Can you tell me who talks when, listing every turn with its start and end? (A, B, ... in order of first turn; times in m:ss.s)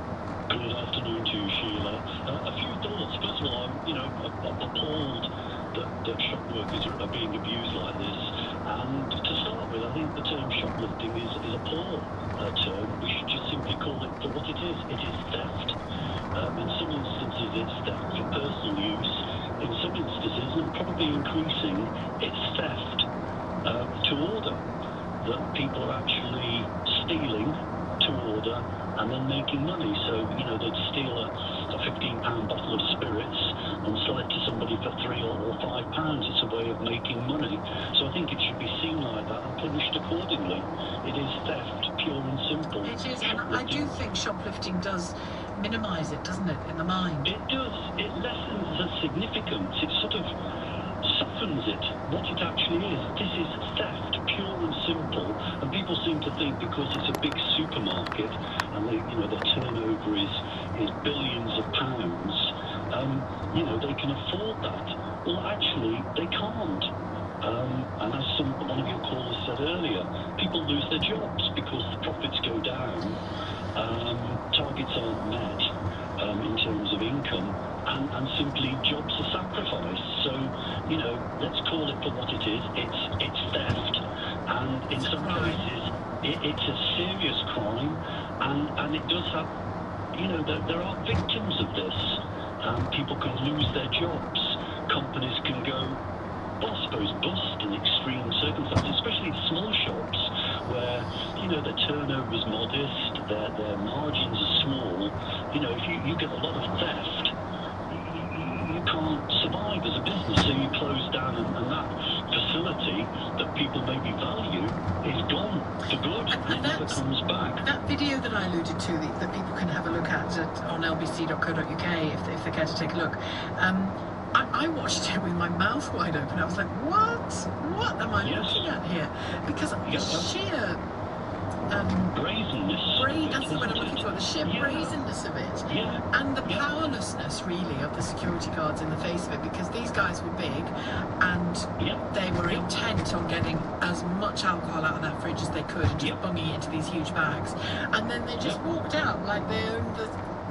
0:00.5-0:15.8 A
0:16.3-0:23.1 A
0:23.6-0:24.6 A
0:25.2-0:43.9 A
0:42.8-0:47.3 B
0:47.2-0:50.3 A
0:51.0-1:06.9 A
1:07.4-1:13.2 A
1:13.7-1:29.5 A
1:24.9-1:25.6 B
1:30.1-1:36.0 A
1:36.6-1:47.3 A
1:47.9-1:57.6 A
1:56.3-1:57.0 B
1:57.6-2:10.8 B
2:08.2-2:08.7 A
2:09.8-2:10.3 A
2:11.7-2:12.1 B
2:12.1-2:14.9 A
2:12.9-2:30.2 B
2:15.7-2:16.6 A
2:21.8-2:22.7 A